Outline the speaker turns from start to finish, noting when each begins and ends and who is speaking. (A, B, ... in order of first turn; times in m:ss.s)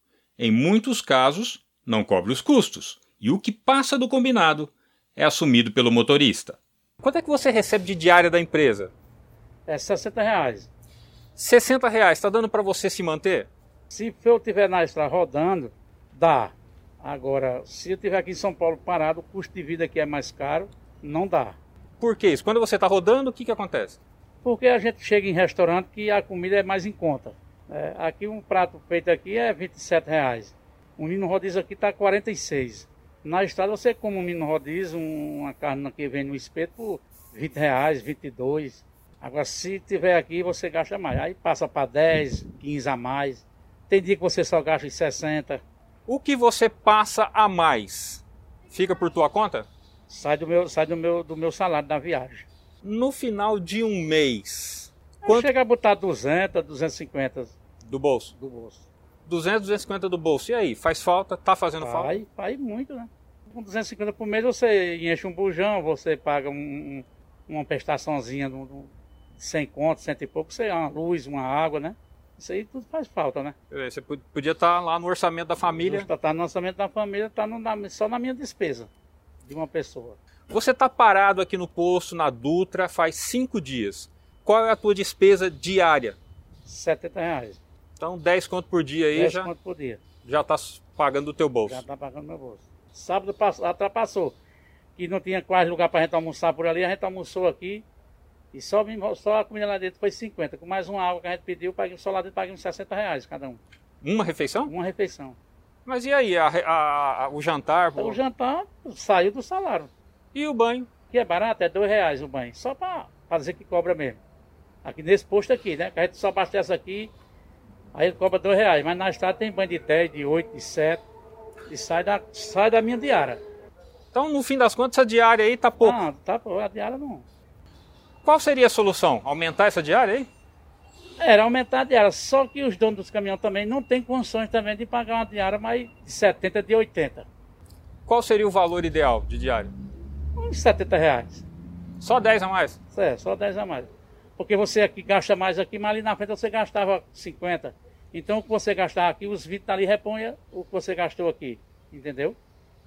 0:00.4-0:08.9 A
0:09.7-0:10.7 B
0:11.4-0:13.5 A
0:13.9-0:21.6 B
0:22.0-0:24.0 A
0:24.4-0:45.6 B
0:46.1-0:49.7 A
0:50.1-0:52.5 B
0:52.8-0:55.5 A
0:55.2-0:57.6 B
0:57.8-0:58.3 A
0:58.4-0:58.9 B
0:59.3-1:02.2 A
1:01.8-1:13.6 B
1:13.7-1:16.1 A
1:15.8-1:18.9 B
1:19.4-1:20.2 B
1:20.5-1:26.2 A
1:26.6-1:27.6 B
1:28.0-1:29.5 A
1:29.1-1:30.0 B
1:30.2-1:31.8 A
1:31.7-1:34.4 B
1:35.0-1:37.8 B
1:38.5-1:43.6 B
1:44.0-1:44.7 A
1:44.7-1:45.4 B
1:45.9-1:48.2 A
1:48.0-1:49.9 B
1:50.3-1:50.9 A
1:51.1-1:54.2 B
1:54.8-1:57.1 B
1:58.0-2:01.0 B
2:01.7-2:03.4 B
2:04.1-2:06.0 A
2:05.8-2:07.3 B
2:08.2-2:10.3 A
2:11.2-2:17.3 B
2:18.1-2:19.7 A
2:20.4-2:21.5 B
2:22.0-2:22.8 A
2:22.9-2:32.4 B